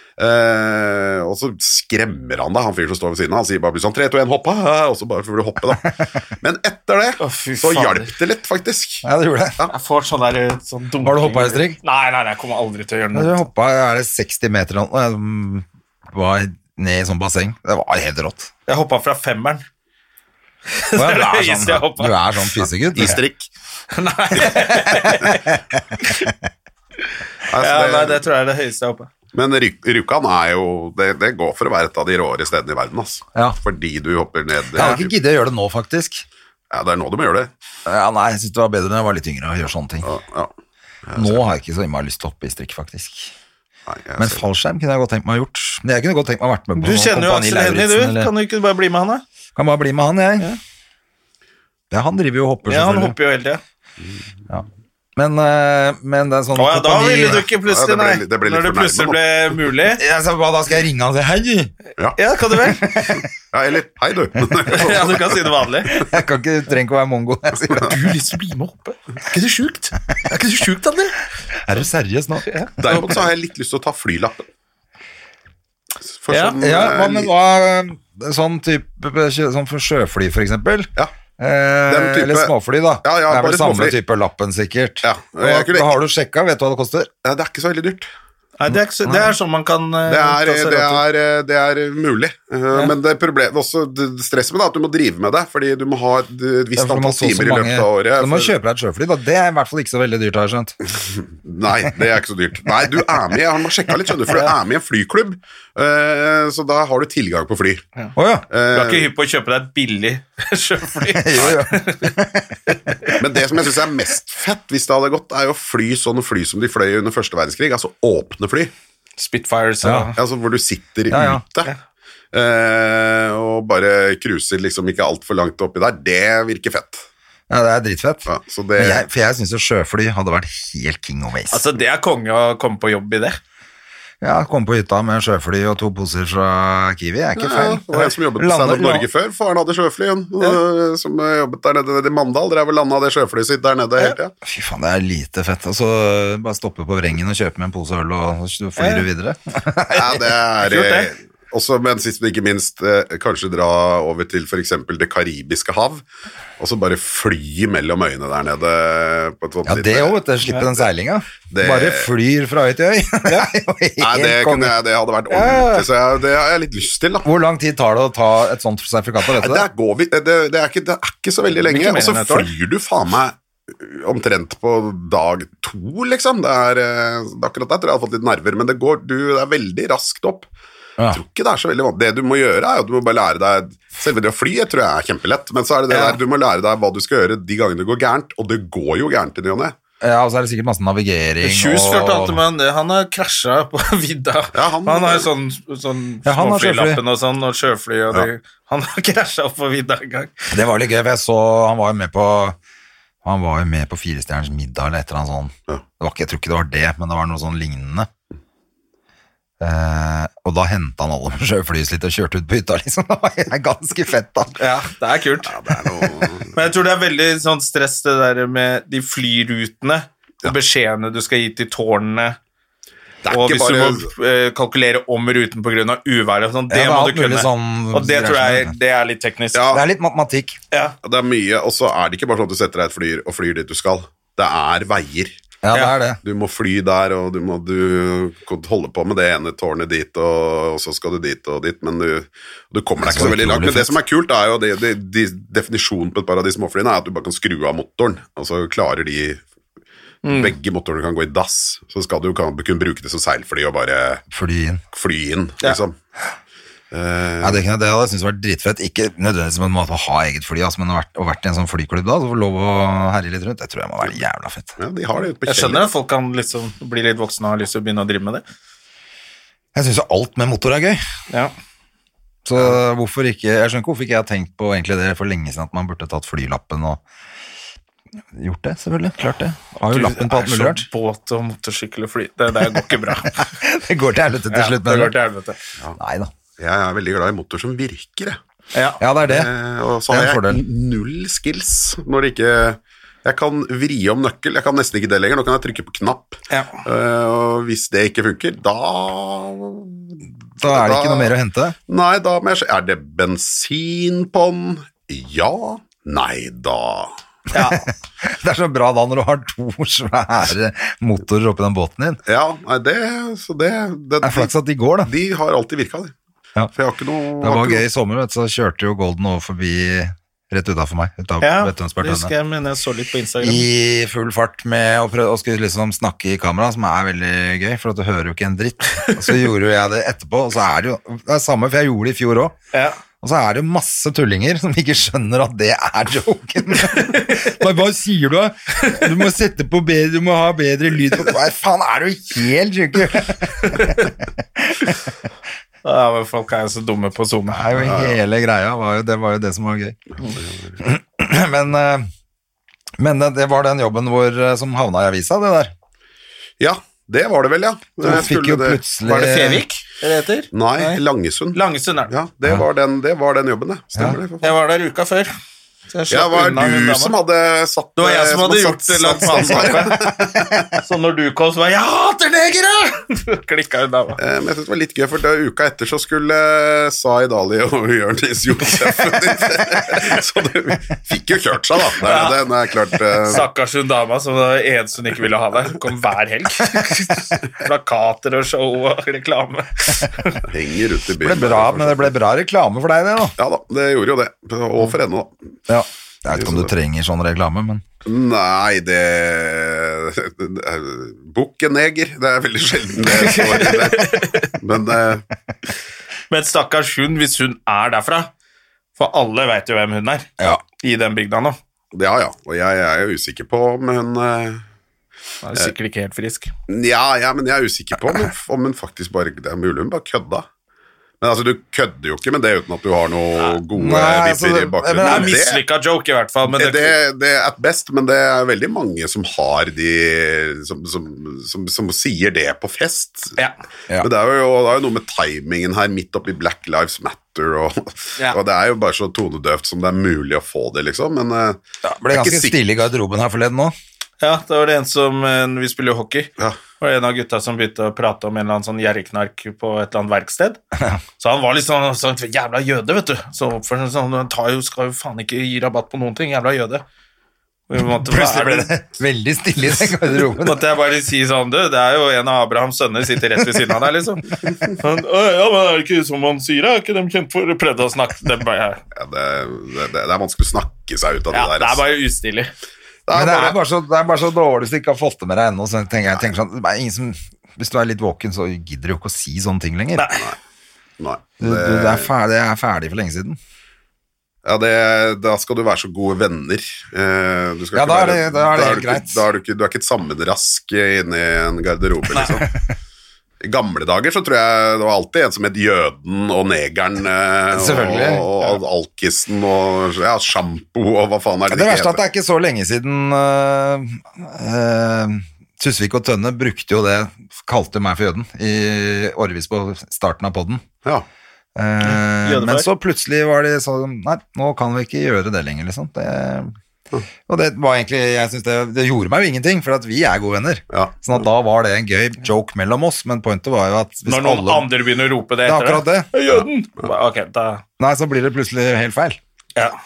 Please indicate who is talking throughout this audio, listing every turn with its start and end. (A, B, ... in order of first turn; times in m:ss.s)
0:00.2-0:09.1 A
0:07.2-0:08.1 B
0:09.0-0:09.6 C
0:09.7-0:13.4 B
0:11.0-0:11.8 C
0:13.1-0:18.5 C
0:18.7-0:19.6 B
0:20.7-0:22.2 B
0:21.0-0:23.2 C
0:22.9-0:23.5 A
0:23.9-0:26.3 B
0:24.4-0:26.3 C
0:27.5-0:28.2 A
0:27.6-0:29.1 B
0:29.3-0:35.1 A
0:34.7-0:36.2 C
0:36.7-0:37.5 A
0:37.8-0:40.1 C
0:40.0-0:40.5 A
0:41.0-0:41.4 A
0:41.1-0:43.3 C
0:43.9-0:44.4 A
0:44.2-0:48.3 C
0:46.8-0:49.2 B
0:49.5-0:50.5 C
0:51.9-0:53.2 C
0:52.6-0:53.6 B
0:55.2-0:57.5 C
0:56.5-1:00.0 B
0:57.5-0:59.5 A
0:59.9-1:01.7 C
1:02.2-1:02.9 B
1:02.6-1:03.2 C
1:03.1-1:05.4 A
1:04.7-1:06.0 B
1:05.9-1:08.0 C
1:07.8-1:11.2 B
1:11.6-1:12.5 C
1:12.4-1:13.2 B
1:12.8-1:14.5 A
1:16.1-1:17.3 A
1:16.3-1:16.6 B
1:16.6-1:27.1 C
1:21.9-1:22.5 A
1:23.0-1:24.0 A
1:25.0-1:25.9 A
1:27.2-1:28.1 A
1:28.6-1:31.0 B
1:28.7-1:29.3 C
1:30.1-1:38.5 A
1:36.8-1:40.8 C
1:41.4-1:47.8 A
1:48.2-1:48.5 C
1:48.5-1:49.1 A
1:48.7-1:52.1 B
1:51.0-1:53.2 C
1:52.7-1:53.2 B
1:53.2-1:58.7 A
1:59.2-2:00.2 B
1:59.8-2:00.1 C
2:00.1-2:01.7 A
2:01.1-2:01.4 C
2:02.3-2:07.0 A
2:07.5-2:11.6 C
2:08.2-2:09.0 A
2:11.5-2:13.4 B
2:14.2-2:19.1 C
2:17.4-2:24.3 A
2:24.4-2:30.3 C
2:28.8-2:29.0 B
2:29.9-2:36.0 A
2:30.6-2:31.1 B
2:36.6-2:40.2 A
2:39.6-2:44.8 C
2:41.5-2:42.1 A
2:43.2-2:43.5 B
2:44.0-2:47.3 A
2:45.3-2:45.9 B
2:47.2-2:49.7 C
2:49.3-3:00.5 A
2:51.6-2:52.5 B
3:01.1-3:09.7 A
3:05.9-3:06.2 B
3:10.0-3:12.4 C
3:11.4-3:20.4 B
3:14.5-3:15.3 A
3:16.2-3:17.0 C
3:20.5-3:22.6 C
3:23.2-3:28.1 C
3:29.6-3:34.6 C
3:34.6-3:35.5 B
3:35.4-3:36.5 A
3:36.5-3:42.4 B
3:43.2-3:44.1 A
3:43.3-3:49.6 B
3:46.7-3:48.7 C
3:49.5-3:49.8 A
3:49.7-3:50.6 C
3:51.0-3:55.4 A
3:55.6-3:56.2 C
3:56.2-4:09.4 A
4:03.0-4:04.0 C
4:10.2-4:10.5 B
4:10.3-4:14.2 A
4:14.3-4:14.8 C
4:14.9-4:16.0 A
4:16.9-4:17.6 A
4:17.4-4:24.8 C
4:24.8-4:25.9 A
4:25.4-4:28.4 B
4:29.7-4:31.0 C
4:32.4-4:37.0 C
4:38.3-4:40.8 C
4:39.9-4:43.4 B
4:42.6-4:45.1 C
4:44.5-4:45.6 B
4:46.0-4:46.3 C
4:46.6-4:48.4 A
4:48.7-4:49.0 B
4:49.0-4:49.5 C
4:49.2-5:01.3 A
4:50.1-4:50.6 C
4:56.5-4:56.8 B
5:00.6-5:01.8 C
5:01.9-5:07.1 A
5:07.5-5:07.9 B
5:07.5-5:12.2 C
5:12.2-5:14.5 A
5:14.2-5:15.1 C
5:15.0-5:16.1 A
5:16.7-5:17.8 A
5:17.4-5:22.3 C
5:21.4-5:23.6 B
5:23.4-5:32.6 C
5:32.7-5:33.0 B
5:33.2-5:45.0 C
5:36.8-5:37.5 B
5:38.8-5:39.1 B
5:43.6-5:44.1 B
5:45.8-5:47.7 B
5:47.5-5:50.0 C
5:47.8-5:48.2 A
5:50.3-5:50.7 A
5:50.8-5:52.1 C
5:53.0-5:55.7 C
5:56.6-5:58.8 A
5:58.0-5:59.6 C
5:59.0-6:01.0 B
6:00.5-6:04.5 A
6:01.5-6:02.1 B
6:04.4-6:05.3 B
6:05.9-6:07.1 B
6:06.1-6:10.8 A
6:08.0-6:10.0 B
6:10.8-6:14.2 B
6:14.2-6:23.5 A
6:22.0-6:22.4 B
6:23.1-6:30.4 B
6:30.4-6:32.1 A
6:31.2-6:33.4 C
6:33.4-6:35.3 A
6:35.7-6:37.8 C
6:36.3-6:36.7 A
6:38.0-6:45.2 A
6:43.1-6:44.5 B
6:46.3-6:48.3 B
6:49.0-6:50.3 B
6:50.8-6:51.6 B
6:51.9-6:54.6 A
6:55.4-6:56.5 B
6:56.7-7:00.5 A
7:01.2-7:05.6 A
7:03.7-7:05.4 C
7:05.0-7:07.0 B
7:06.5-7:13.4 A
7:14.0-7:22.6 A
7:21.8-7:23.7 C
7:24.2-7:30.6 B
7:31.2-7:36.8 B
7:37.7-7:38.7 B
7:37.8-7:40.6 C
7:40.4-7:48.8 B
7:48.9-7:51.8 A
7:51.3-7:52.5 B
7:53.1-7:53.6 A
7:53.1-8:00.1 C
8:00.0-8:00.3 B
8:01.0-8:02.1 A
8:01.4-8:03.4 C
8:04.4-8:12.5 A
8:07.7-8:09.2 C
8:13.4-8:22.0 A
8:17.5-8:18.3 C
8:21.5-8:30.6 C
8:31.6-8:36.5 C
8:31.8-8:32.7 B
8:37.3-8:44.7 C
8:40.7-8:41.2 A
8:44.0-8:47.6 B
8:45.4-8:46.2 C
8:47.8-8:49.2 C